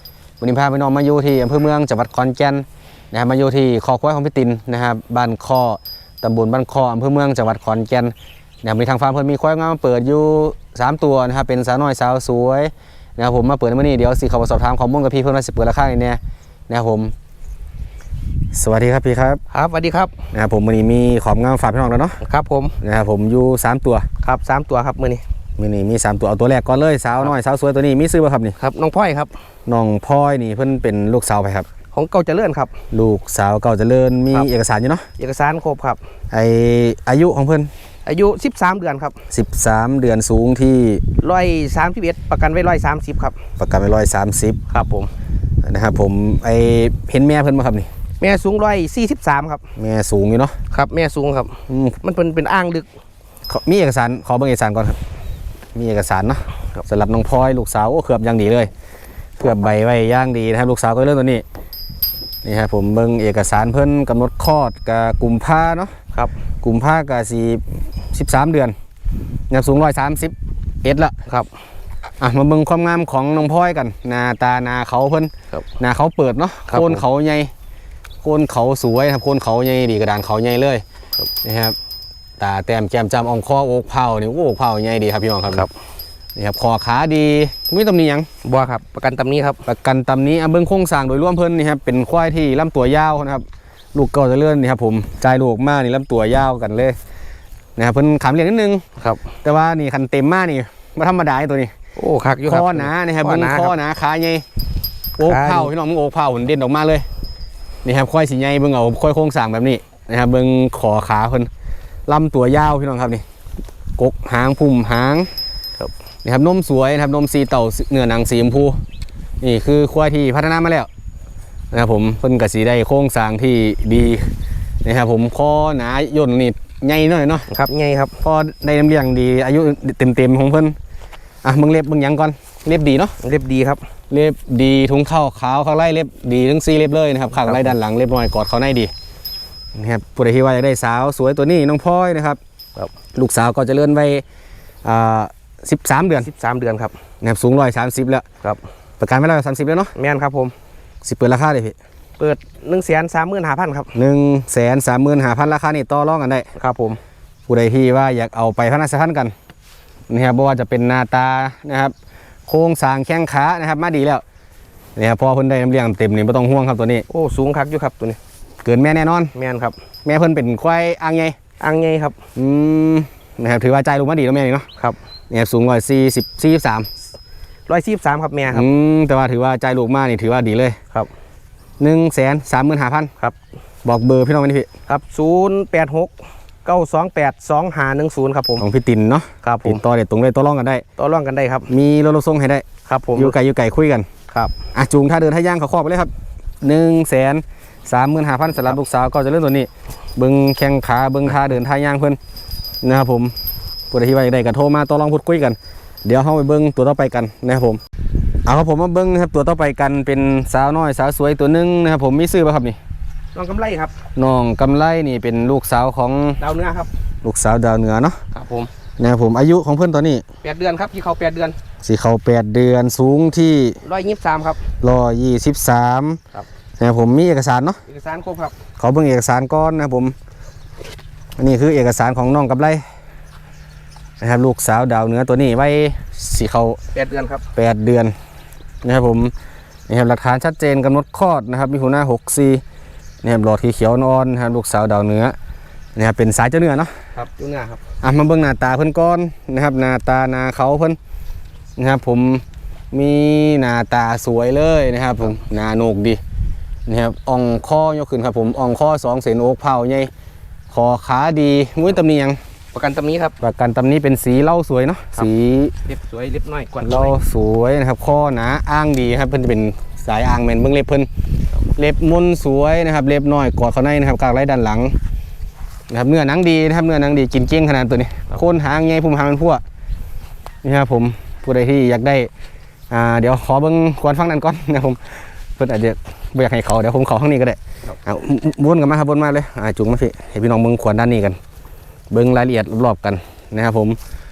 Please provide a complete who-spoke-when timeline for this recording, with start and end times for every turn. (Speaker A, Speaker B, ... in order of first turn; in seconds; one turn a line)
Speaker A: 0.4-17.1
Speaker A: 18.5-19.4
Speaker B: 19.5-20.1
Speaker A: 20.3-22.2
Speaker B: 22.2-22.8
Speaker A: 22.8-24.1
Speaker B: 24.2-25.2
Speaker A: 25.6-28.6
Speaker B: 28.6-29.3
Speaker A: 29.7-31.7
Speaker B: 31.9-32.7
Speaker A: 32.9-35.1
Speaker B: 35.2-36.0
Speaker A: 36.3-37.7
Speaker B: 38.1-39.2
Speaker A: 39.3-41.0
Speaker B: 41.2-43.4
Speaker A: 43.6-44.6
Speaker B: 44.7-45.1
Speaker A: 45.6-47.9
Speaker B: 48.2-49.6
Speaker A: 49.8-50.6
Speaker B: 50.7-52.9
Speaker A: 51.7-52.0
Speaker A: 53.5-55.0
Speaker A: 55.8-58.7
Speaker A: 59.4-61.4
Speaker A: 62.4-65.9
Speaker A: 66.6-68.8
Speaker A: 69.5-71.2
Speaker A: 72.2-77.5
Speaker B: 76.7-77.0
Speaker A: 78.2-80.8
Speaker A: 81.4-81.8
Speaker A: 82.4-85.7
Speaker A: 86.4-88.3
Speaker B: 88.4-89.6
Speaker A: 89.7-97.0
Speaker A: 97.8-98.8
Speaker A: 99.4-101.7
Speaker B: 102.0-103.7
Speaker A: 102.5-104.4
Speaker A: 105.2-107.1
Speaker B: 105.2-105.7
Speaker A: 107.8-111.5
Speaker A: 112.1-113.2
Speaker A: 114.0-115.3
Speaker A: 116.2-118.8
Speaker A: 119.4-120.9
Speaker A: 121.7-124.3
Speaker A: 124.8-127.5
Speaker B: 127.5-128.2
Speaker A: 128.2-130.8
Speaker A: 131.4-133.2
Speaker B: 133.2-133.8
Speaker A: 134.1-138.9
Speaker B: 137.4-137.7
Speaker A: 139.8-142.4
Speaker A: 143.1-144.2
Speaker A: 144.8-146.3
Speaker B: 146.2-146.9
Speaker A: 147.2-148.2
Speaker A: 149.0-149.9
Speaker B: 149.9-150.5
Speaker A: 151.0-151.8
Speaker B: 152.2-153.9
Speaker A: 153.9-156.5
Speaker B: 156.6-157.0
Speaker A: 157.5-159.3
Speaker A: 160.1-161.9
Speaker A: 162.5-164.2
Speaker A: 165.0-167.1
Speaker B: 167.1-168.2
Speaker A: 168.6-169.3
Speaker B: 169.3-169.8
Speaker A: 170.1-171.4
Speaker B: 171.6-172.2
Speaker A: 172.4-174.7
Speaker A: 175.3-176.9
Speaker B: 177.7-178.7
Speaker A: 178.5-180.8
Speaker A: 181.8-183.1
Speaker A: 183.8-184.7
Speaker B: 184.9-186.1
Speaker B: 186.7-188.7
Speaker A: 188.6-190.8
Speaker B: 189.4-189.8
Speaker B: 191.0-191.7
Speaker A: 191.7-194.1
Speaker B: 192.9-193.3
Speaker A: 194.7-202.2
Speaker A: 202.8-203.3
Speaker A: 203.9-207.8
Speaker A: 208.4-212.8
Speaker B: 213.3-213.9
Speaker A: 214.2-216.4
Speaker B: 216.4-216.9
Speaker A: 217.2-218.2
Speaker B: 218.3-218.7
Speaker A: 219.0-220.2
Speaker B: 220.4-221.6
Speaker A: 221.8-223.8
Speaker B: 223.8-224.6
Speaker A: 224.8-226.2
Speaker A: 226.8-227.8
Speaker B: 227.9-228.5
Speaker A: 228.8-230.2
Speaker A: 231.4-232.8
Speaker A: 234.2-236.8
Speaker B: 236.9-237.4
Speaker A: 237.6-238.1
Speaker A: 238.8-239.3
Speaker A: 239.9-242.6
Speaker A: 243.2-245.3
Speaker A: 245.9-246.9
Speaker B: 247.2-247.8
Speaker A: 248.0-251.0
Speaker A: 251.8-256.2
Speaker A: 256.9-260.1
Speaker A: 260.7-262.4
Speaker B: 262.7-263.4
Speaker A: 263.4-265.7
Speaker B: 265.9-267.2
Speaker A: 266.8-271.1
Speaker A: 271.8-275.0
Speaker A: 275.9-279.6
Speaker A: 280.6-282.3
Speaker A: 282.9-285.0
Speaker A: 285.6-291.4
Speaker A: 292.1-294.0